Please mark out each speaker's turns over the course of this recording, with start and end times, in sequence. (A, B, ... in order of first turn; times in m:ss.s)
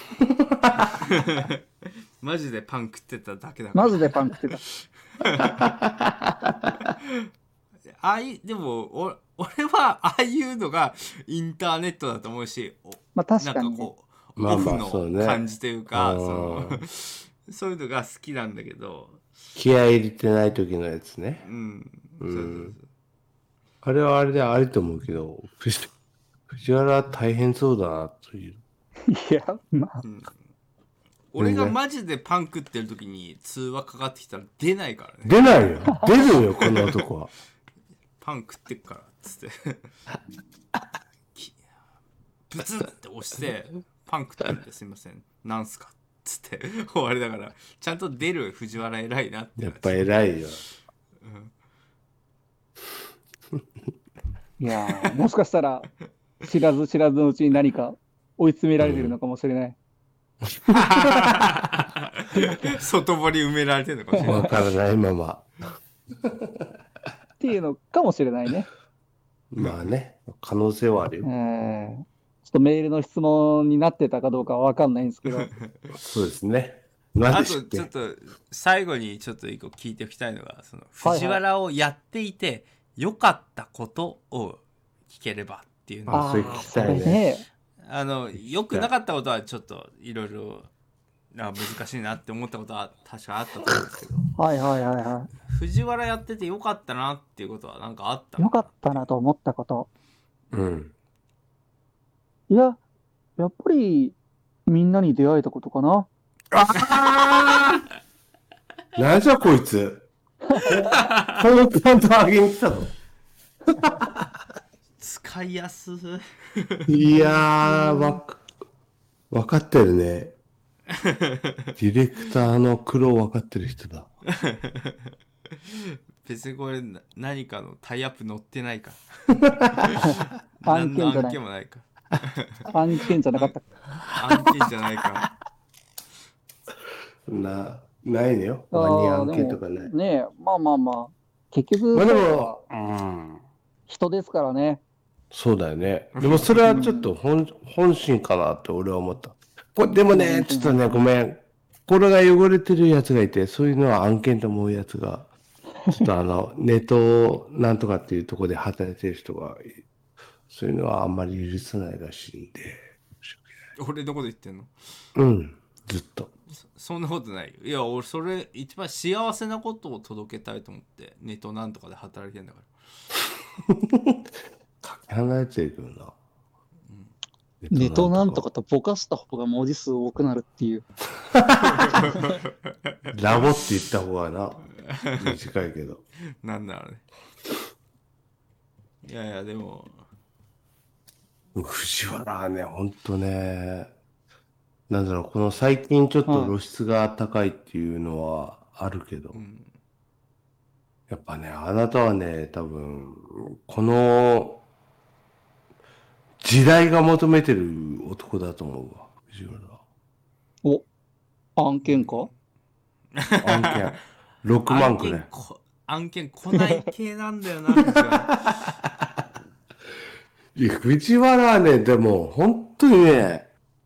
0:00.2-0:01.0 A
0:00.9-0:04.6 B
0:03.8-0:04.6 C
0:05.2-0:05.6 B
0:05.4-0:06.8 A
0:06.9-0:07.2 B
0:08.0-0:19.3 B
0:13.2-0:13.9 C
0:14.4-0:16.8 A
0:19.6-0:21.4 A
0:21.4-0:22.8 B
0:22.2-0:22.8 A
0:23.8-0:25.9 A
0:26.5-0:28.6 A
0:29.1-0:30.0 C
0:30.0-0:30.3 B
0:31.3-0:36.1 B
0:31.4-0:31.8 A
0:35.2-0:37.3 A
0:36.6-0:37.0 B
0:38.2-0:39.9 B
0:42.5-0:50.0 B
0:49.6-0:50.6 A
0:51.2-0:51.5 B
0:54.6-0:55.9 C
0:56.4-0:59.8 C
0:58.8-0:59.1 A
1:00.7-1:01.4 A
1:00.7-1:04.6 B
1:04.1-1:04.5 C
1:04.2-1:05.5 A
1:06.2-1:06.7 A
1:07.4-1:08.7 C
1:09.5-1:11.3 A
1:11.2-1:15.5 C
1:15.3-1:15.9 B
1:16.0-1:17.9 A
1:17.3-1:26.7 B
1:21.0-1:21.4 C
1:26.1-1:27.2 A
1:26.1-1:27.4 C
1:27.8-1:30.7 B
1:31.3-1:34.3 B
1:34.4-1:35.3 C
1:35.5-1:39.1 B
1:38.4-1:39.9 C
1:40.5-1:40.9 A
1:42.5-1:42.8 C
1:43.4-1:44.2 C
1:44.7-1:46.1 C
1:46.5-1:47.8 A
1:49.0-1:50.1 A
1:50.6-1:52.9 A
1:50.9-1:51.4 B
1:53.8-1:54.3 A
1:55.0-1:57.0 B
1:56.9-1:58.4 A
1:57.2-1:58.2 C
1:59.3-2:00.4 A
2:00.9-2:01.7 B
2:01.8-2:04.1 A
2:04.3-2:05.1 B
2:05.6-2:12.7 B
2:09.4-2:10.0 A
2:10.0-2:11.4 C
2:12.7-2:13.7 C
2:14.1-2:14.6 A
2:14.1-2:15.3 B
2:17.3-2:19.9 A
2:18.7-2:22.6 C
2:21.9-2:23.4 A
2:23.9-2:24.8 C
2:25.3-2:35.3 A
2:26.2-2:26.7 B
2:26.7-2:27.1 C
2:30.1-2:31.0 C
2:35.9-2:39.8 A
2:40.5-2:43.4 A
2:43.8-2:44.7 B
2:45.2-2:46.3 A
2:46.6-2:52.7 B
2:53.6-2:54.3 A
2:54.8-2:56.2 A
2:56.9-2:57.1 B
2:57.6-2:58.4 A
2:57.7-3:00.8 C
3:01.3-3:02.1 A
3:01.7-3:03.5 B
3:03.1-3:06.0 A
3:04.8-3:05.4 B
3:06.4-3:07.0 B
3:09.0-3:10.0 B
3:11.6-3:13.9 A
3:14.9-3:19.4 A
3:16.3-3:16.6 C
3:19.3-3:19.7 B
3:21.1-3:24.6 A
3:26.4-3:29.8 A
3:31.6-3:32.3 C
3:31.9-3:32.3 B
3:33.2-3:34.0 B
3:33.4-3:35.3 A
3:34.7-3:38.5 B
3:36.6-3:36.8 C
3:37.8-3:39.0 A
3:40.6-3:43.5 A